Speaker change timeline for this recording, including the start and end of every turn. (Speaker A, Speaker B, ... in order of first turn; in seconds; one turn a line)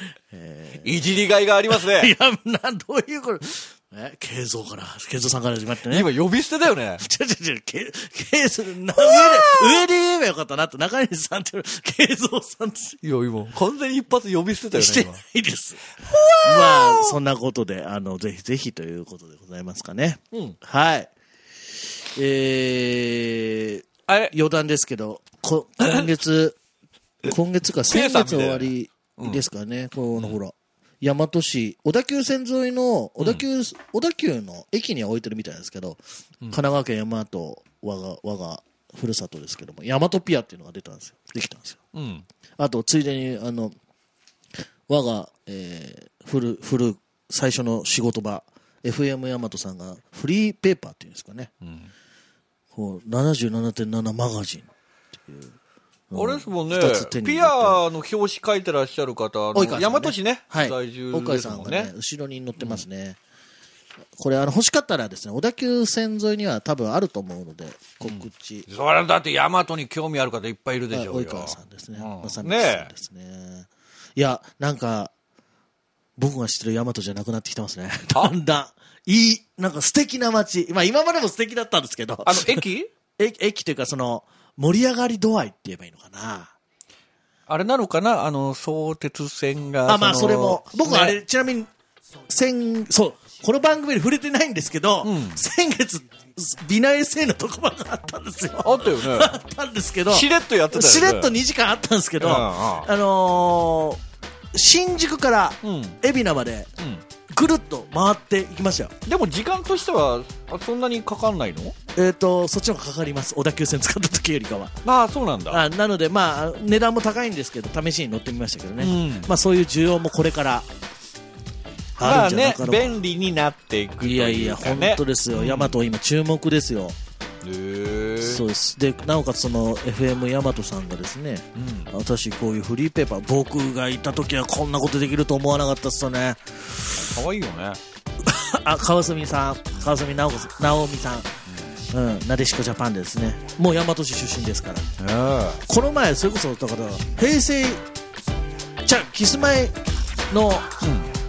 Speaker A: 0.3-1.0
Speaker B: 0.8-2.1
Speaker A: 1.7-6.1
Speaker B: 5.9-7.0
Speaker A: 7.0-13.0
Speaker B: 8.9-9.9
Speaker B: 13.0-15.2
Speaker A: 14.7-15.9
Speaker B: 16.0-17.1
Speaker A: 16.4-21.1
Speaker A: 21.8-26.6
Speaker B: 24.1-24.3
Speaker A: 27.2-36.0
Speaker B: 27.9-29.4
Speaker B: 33.2-33.5
Speaker A: 36.5-41.8
Speaker B: 41.9-42.3
Speaker A: 42.6-43.8
Speaker A: 44.9-51.5
Speaker B: 51.6-51.9
Speaker A: 52.7-55.5
Speaker A: 56.1-57.8
Speaker B: 56.1-61.9
Speaker A: 59.5-63.2
Speaker B: 62.6-62.9
Speaker A: 64.2-68.7
Speaker B: 68.0-72.9
Speaker A: 70.9-75.1
Speaker A: 76.2-82.7
Speaker B: 82.2-82.9
Speaker A: 83.2-86.5
Speaker B: 87.5-91.2
Speaker A: 89.9-91.7
Speaker A: 92.3-104.0
Speaker B: 95.0-95.4
Speaker B: 98.6-99.3
Speaker B: 100.1-101.4
Speaker B: 102.2-102.9
Speaker A: 104.5-106.7
Speaker B: 105.6-106.0
Speaker B: 106.8-107.0
Speaker A: 107.3-108.9
Speaker B: 109.1-111.8
Speaker A: 112.0-114.8
Speaker B: 114.8-115.6
Speaker A: 115.5-120.7
Speaker B: 118.8-119.3
Speaker A: 122.0-123.0
Speaker B: 122.0-125.8
Speaker A: 124.0-127.0
Speaker B: 127.4-128.4
Speaker A: 128.2-136.9
Speaker B: 131.6-131.9
Speaker B: 136.9-137.8
Speaker A: 138.2-141.3
Speaker A: 141.9-144.9
Speaker B: 145.0-145.6
Speaker A: 145.7-147.8
Speaker A: 148.8-149.7
Speaker A: 150.3-150.7
Speaker B: 150.8-151.1